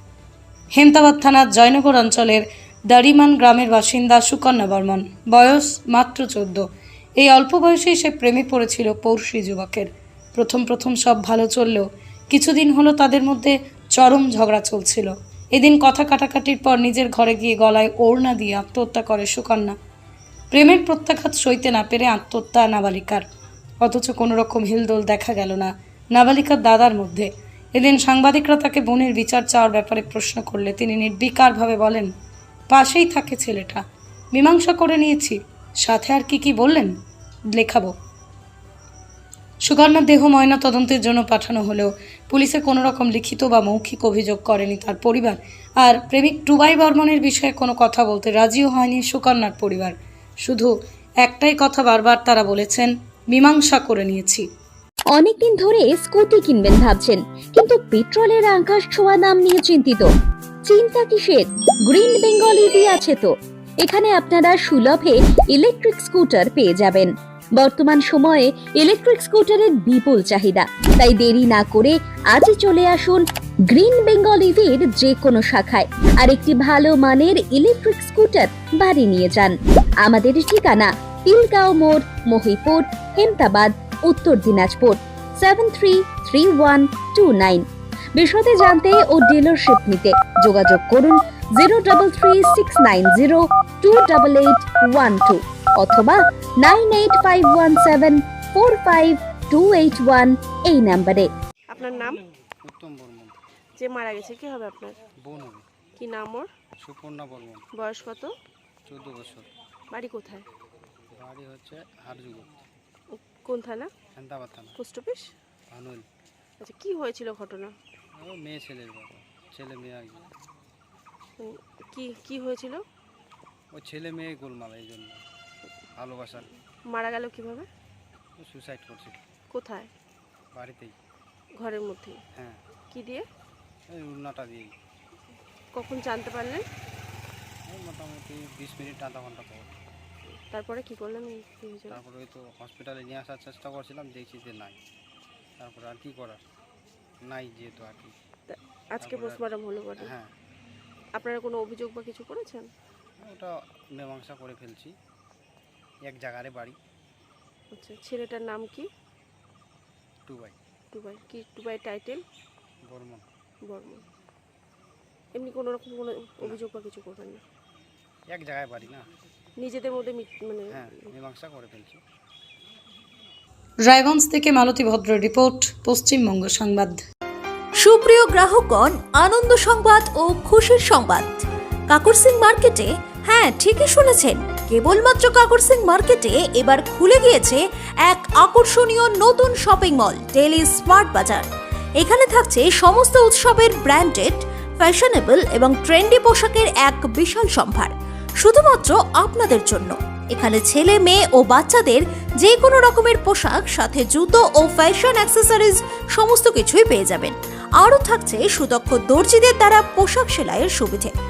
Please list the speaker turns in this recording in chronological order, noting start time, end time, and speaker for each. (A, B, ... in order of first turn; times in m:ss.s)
0:00.7-0:06.6 A
0:07.2-0:19.8 A
0:20.5-0:23.3 A
0:23.8-0:32.1 A
0:32.7-0:36.9 A
0:37.5-0:37.9 A
0:39.6-0:50.7 A
0:51.2-0:54.5 A
0:55.1-1:00.1 B
1:00.7-1:27.6 B
1:28.2-1:41.3 B
1:41.7-1:42.2 C
1:42.6-1:43.4 D
1:43.8-1:45.0 C
1:45.2-1:45.7 D
1:46.0-1:46.5 C
1:46.8-1:47.6 D
1:47.8-1:48.3 C
1:48.9-1:49.5 D
1:49.9-1:50.5 C
1:51.2-1:52.5 D
1:53.2-1:53.9 C
1:54.2-1:54.8 D
1:54.8-1:55.3 C
1:55.7-1:56.1 D
1:56.6-1:57.7 C
1:58.2-2:00.3 D
2:01.4-2:02.8 C
2:03.7-2:05.2 D
2:06.0-2:06.5 D
2:06.9-2:07.7 C
2:08.4-2:09.2 D
2:09.5-2:09.9 C
2:10.6-2:11.0 D
2:11.6-2:12.2 C
2:12.4-2:12.6 D
2:12.9-2:13.3 C
2:13.9-2:14.7 D
2:15.8-2:16.6 C
2:17.7-2:19.7 D
2:20.5-2:22.0 C
2:21.9-2:24.8 D
2:25.6-2:26.4 D
2:27.3-2:28.2 D
2:28.5-2:30.1 C
2:29.0-2:29.4 D
2:30.0-2:30.3 D
2:31.2-2:32.7 C
2:33.2-2:34.9 D
2:36.1-2:36.8 D
2:37.7-2:38.9 C
2:40.3-2:40.6 D
2:40.9-2:42.2 C
2:42.9-2:43.3 D
2:43.7-2:44.0 C
2:45.4-2:47.4 C
2:48.3-2:49.1 D
2:49.6-2:50.9 C
2:50.7-2:52.0 D
2:53.9-2:57.0 A
2:57.8-3:11.5 E
3:12.0-3:31.1 E